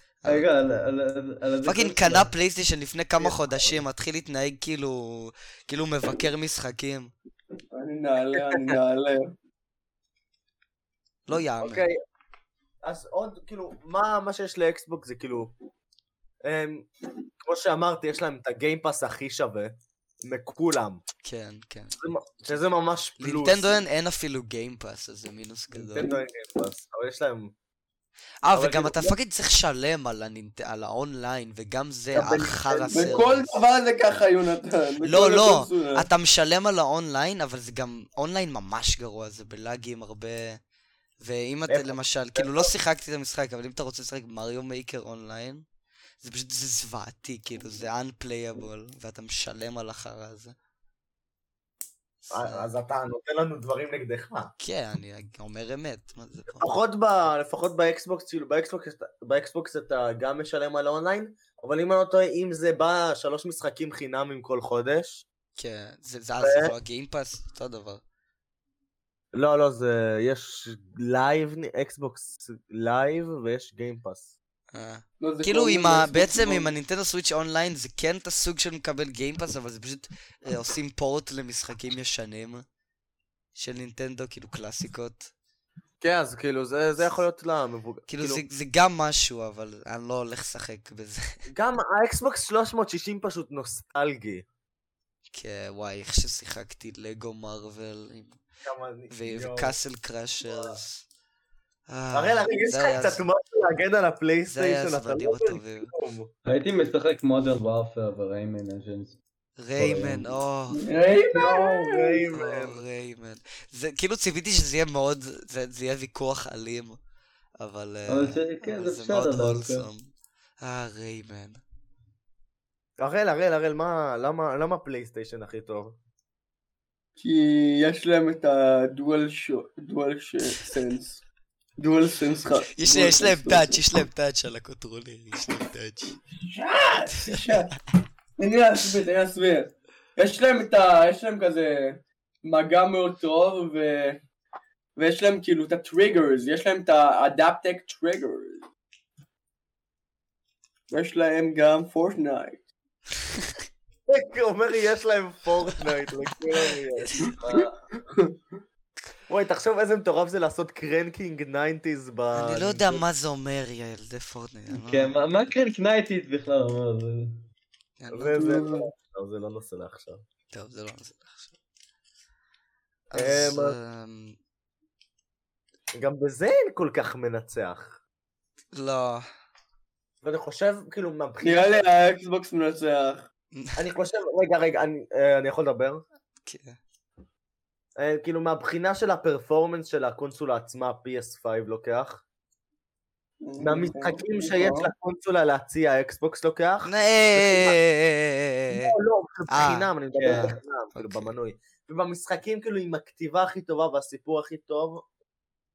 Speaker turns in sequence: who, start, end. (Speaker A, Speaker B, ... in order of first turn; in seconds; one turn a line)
Speaker A: 0.2-2.3
Speaker B: 1.6-7.1
Speaker C: 3.2-3.8
Speaker D: 7.7-9.3
Speaker C: 8.4-8.8
Speaker B: 11.3-11.9
Speaker C: 11.6-12.0
Speaker C: 12.8-15.5
Speaker C: 16.4-16.9
Speaker C: 17.4-21.0
Speaker B: 21.2-22.0
Speaker C: 22.0-23.8
Speaker B: 23.2-26.1
Speaker C: 25.7-27.5
Speaker B: 28.4-33.6
Speaker C: 28.5-29.1
Speaker C: 32.1-33.2
Speaker D: 32.9-36.1
Speaker B: 35.0-40.6
Speaker B: 41.2-45.6
Speaker C: 41.7-42.7
Speaker B: 46.2-50.5
Speaker C: 52.3-54.5
Speaker B: 52.3-52.6
Speaker B: 54.6-56.7
Speaker C: 56.5-65.2
Speaker B: 65.6-68.0
Speaker C: 66.4-66.7
Speaker C: 69.3-74.3
Speaker B: 74.7-82.6
Speaker D: 75.2-76.7
Speaker B: 83.5-85.3
Speaker C: 86.0-88.4
Speaker B: 88.1-91.3
Speaker C: 91.5-94.4
Speaker B: 95.3-98.4
Speaker C: 98.6-99.7
Speaker B: 99.1-101.0
Speaker C: 100.5-100.7
Speaker B: 101.9-103.2
Speaker C: 102.1-106.3
Speaker B: 104.5-105.9
Speaker A: 106.5-109.2
Speaker B: 109.6-110.8
Speaker A: 109.8-110.4
Speaker D: 110.7-112.2
Speaker C: 111.3-112.8
Speaker B: 112.3-117.0
Speaker B: 117.6-120.1
Speaker A: 118.1-119.9
Speaker B: 120.6-121.6
Speaker C: 123.0-126.0
Speaker D: 127.2-131.2
Speaker D: 131.8-133.8
Speaker B: 132.7-136.2
Speaker D: 136.4-137.7
Speaker D: 138.4-144.2
Speaker D: 144.9-148.7
Speaker D: 150.9-152.7
Speaker C: 154.1-157.4
Speaker B: 156.9-157.4
Speaker A: 157.4-157.7
Speaker D: 157.4-158.4
Speaker C: 159.3-163.0
Speaker B: 162.3-165.2
Speaker A: 164.7-167.4
Speaker B: 168.0-168.4
Speaker C: 168.1-170.2
Speaker D: 168.3-168.9
Speaker B: 170.5-171.5
Speaker B: 173.1-174.4
Speaker C: 173.1-173.8
Speaker C: 175.9-178.0
Speaker B: 178.7-179.2
Speaker C: 180.2-181.8
Speaker D: 181.4-183.3
Speaker B: 183.5-183.8
Speaker C: 183.8-186.0
Speaker B: 186.4-186.8
Speaker C: 188.0-192.2
Speaker D: 193.4-194.9
Speaker C: 193.6-197.8
Speaker B: 196.8-198.9
Speaker C: 198.7-205.0
Speaker B: 199.5-201.3
Speaker A: 200.2-200.5